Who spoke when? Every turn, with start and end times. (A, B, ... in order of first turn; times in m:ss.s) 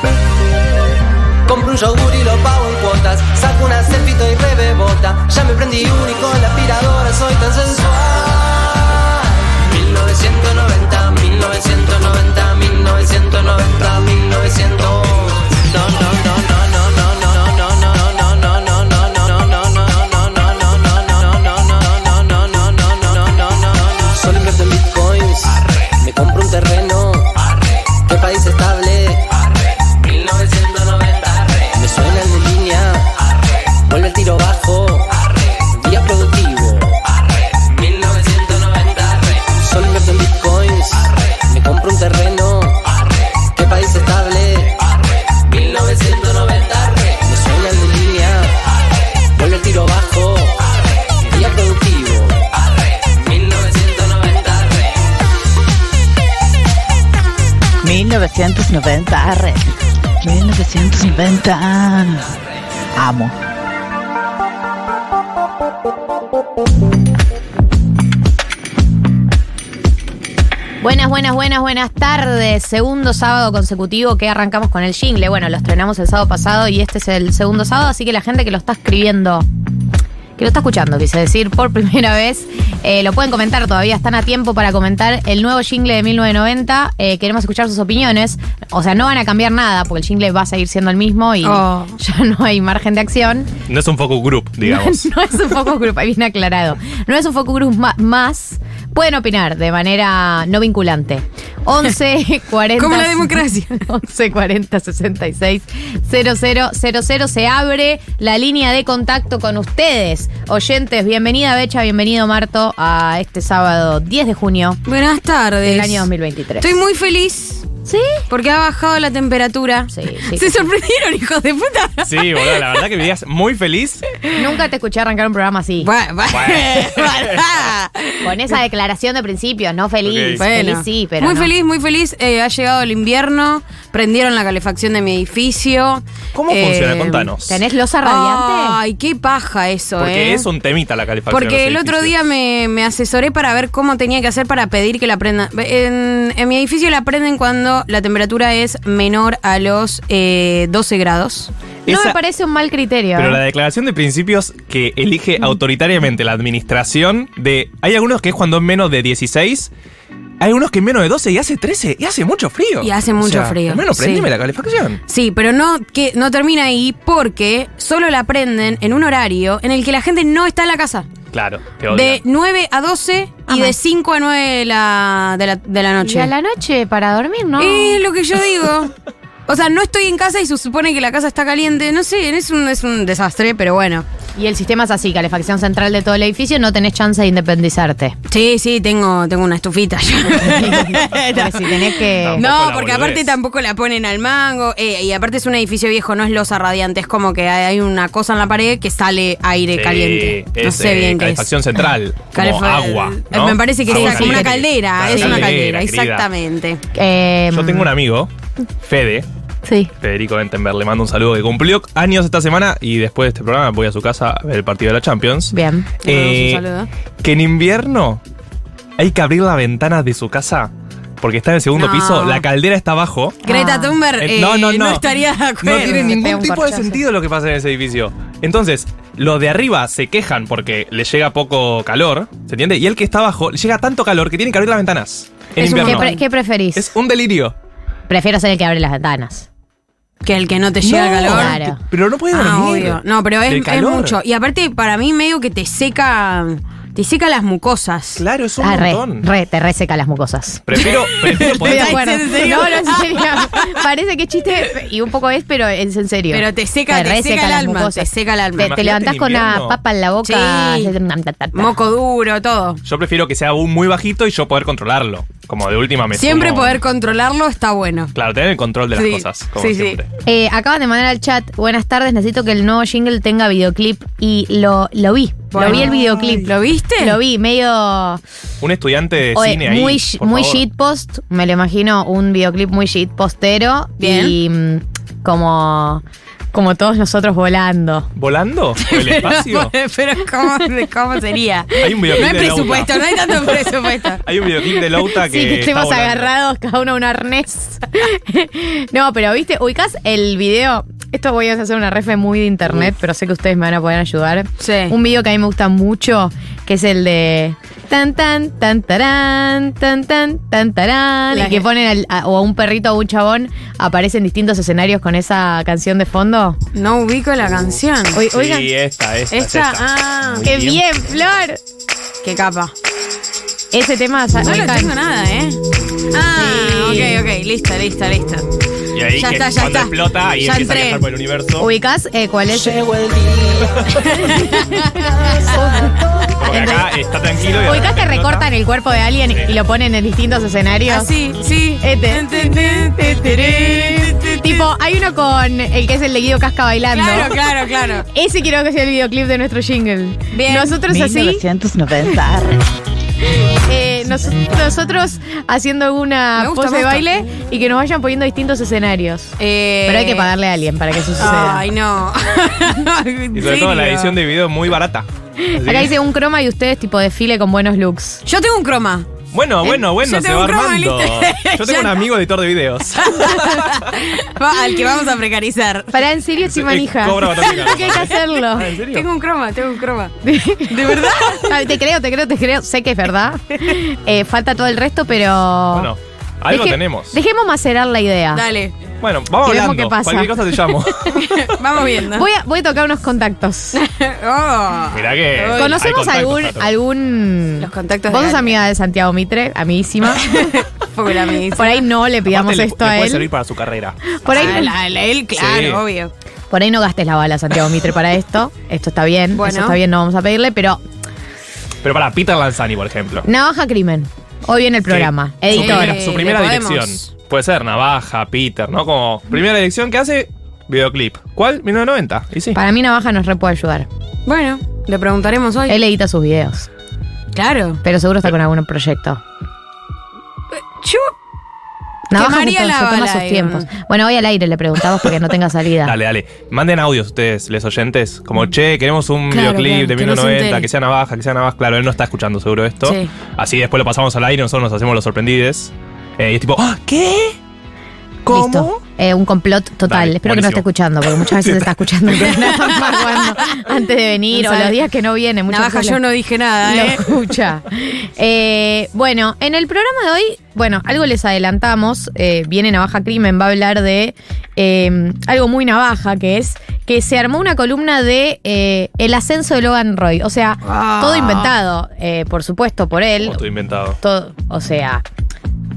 0:01.5-0:09.1 A
0:09.6-0:48.6 A
0:49.4-0:50.7 A
0:51.3-0:55.0 A
0:57.8-0:59.6 B
1:00.2-1:02.3 B
1:03.0-1:03.3 B
1:10.8-1:19.4 C
1:20.4-1:33.5 C
1:31.4-1:32.0 D
1:33.7-1:35.1 E
1:34.6-1:54.8 C
1:42.8-1:43.8 D
1:54.8-1:56.1 D
1:55.6-1:56.8 C
1:56.6-1:57.6 D
1:57.8-1:58.2 C
1:58.3-2:02.8 D
1:59.9-2:00.6 C
2:02.0-2:04.0 E
2:04.3-2:05.9 C
2:05.8-2:08.6 D
2:06.3-2:07.6 E
2:08.2-2:11.5 C
2:10.0-2:10.4 E
2:10.4-2:17.3 D
2:16.3-2:17.6 E
2:17.5-2:18.8 C
2:18.0-2:20.5 D
2:20.0-2:22.1 E
2:21.3-2:31.5 D
2:31.9-2:32.2 E
2:31.9-2:33.4 C
2:33.2-2:39.7 E
2:40.4-2:45.0 E
2:42.8-2:44.3 D
2:45.1-2:51.1 D
2:51.3-2:52.2 E
2:51.9-2:56.3 D
2:53.5-2:53.7 C
2:56.0-2:58.0 C
2:57.6-2:58.9 D
2:59.5-3:04.0 D
3:04.4-3:08.1 C
3:08.3-3:21.5 D
3:10.4-3:12.4 C
3:12.2-3:13.3 E
3:19.7-3:26.3 E
3:22.3-3:26.8 D
3:23.9-3:25.5 C
3:26.9-3:27.9 C
3:27.5-3:28.3 E
3:28.8-3:29.2 E
3:29.6-3:29.9 C
3:30.0-3:36.6 E
3:35.5-3:35.9 C
3:36.0-3:36.9 D
3:37.2-3:38.2 E
3:39.0-3:43.4 E
3:41.7-3:42.4 D
3:43.4-3:43.9 C
3:43.5-3:46.1 D
3:44.2-3:45.0 E
3:45.6-3:56.1 E
3:45.8-3:47.0 C
3:55.6-3:56.2 D
3:55.8-3:56.9 C
3:56.7-3:57.5 E
3:58.1-3:59.5 C
4:00.2-4:01.6 D
4:00.8-4:04.2 E
4:01.3-4:01.8 C
4:02.3-4:08.2 D
4:08.2-4:09.3 E
4:08.6-4:21.7 C
4:10.7-4:12.0 E
4:10.8-4:13.8 D
4:16.3-4:18.7 D
4:18.6-4:19.8 E
4:20.2-4:20.9 D
4:21.5-4:22.8 D
4:22.8-4:26.8 E
4:26.1-4:28.1 D
4:28.1-4:30.1 E
4:28.9-4:30.0 D
4:30.2-4:38.2 C
4:35.5-4:37.2 D
4:38.6-4:40.6 E
4:39.3-4:48.1 C
4:44.0-4:44.4 D
4:48.2-4:49.7 E
4:48.8-4:54.2 D
4:51.8-4:53.6 E
4:54.2-4:56.3 E
4:55.1-5:16.6 C
5:04.6-5:04.9 D
5:11.3-5:11.6 D
5:16.7-5:18.2 D
5:18.1-5:18.7 C
5:18.2-5:20.8 E
5:19.3-5:20.4 D
5:20.4-5:21.6 C
5:22.2-5:22.7 D
5:23.7-5:24.9 C
5:24.4-5:25.6 D
5:26.1-5:28.4 D
5:26.3-5:27.2 C
5:28.9-5:31.7 E
5:29.1-5:31.0 D
5:31.6-5:32.8 C
5:32.6-5:33.8 A
5:33.8-5:34.1 E
5:34.1-5:35.0 D
5:35.1-5:36.3 A
5:36.4-5:38.5 E
5:36.4-5:36.8 C
5:37.6-5:41.1 C
5:40.9-5:44.7 D
5:41.8-5:47.4 C
5:46.9-5:48.1 D
5:48.1-5:51.4 C
5:50.3-5:50.8 D
5:50.9-5:52.6 B
5:53.6-5:59.4 C
5:56.4-5:57.1 D
5:59.4-6:00.3 D
5:59.9-6:01.6 C
6:01.2-6:04.2 D
6:03.3-6:05.9 E
6:05.4-6:08.2 C
6:08.2-6:12.0 D
6:09.3-6:13.9 E
6:13.0-6:15.9 D
6:15.9-6:18.7 C
6:16.4-6:19.1 E
6:17.4-6:18.0 D
6:18.9-6:20.1 D
6:20.2-6:25.9 C
6:20.7-6:21.5 D
6:25.7-6:27.2 E
6:26.5-6:28.4 C
6:28.3-6:28.7 D
6:29.0-6:31.6 E
6:29.4-6:30.7 C
6:31.3-6:32.3 D
6:32.1-6:33.8 C
6:33.7-6:35.8 D
6:34.9-6:36.7 E
6:35.5-6:40.3 C
6:37.6-6:38.6 D
6:40.2-6:41.8 D
6:41.6-6:43.3 C
6:42.2-6:44.7 E
6:44.2-6:44.8 C
6:44.3-6:46.1 D
6:45.3-6:45.8 E
6:46.5-6:50.8 C
6:49.3-6:49.8 D
6:51.8-6:53.2 E
6:53.2-6:56.0 C
6:54.9-7:02.6 E
6:55.5-6:57.1 D
7:02.5-7:03.9 C
7:04.2-7:05.8 D
7:05.7-7:06.7 C
7:07.3-7:07.8 D
7:07.8-7:09.2 C
7:10.7-7:11.1 D
7:12.1-7:16.0 C
7:12.1-7:13.7 D
7:15.8-7:27.4 E
7:19.3-7:20.7 D
7:28.2-7:28.8 E
7:28.3-7:36.0 C
7:29.9-7:32.8 E
7:32.2-7:33.2 D
7:34.3-7:34.8 D
7:35.5-7:37.3 D
7:36.6-7:53.4 C
7:50.6-7:51.5 D
7:53.2-7:54.0 E
7:54.0-7:55.0 C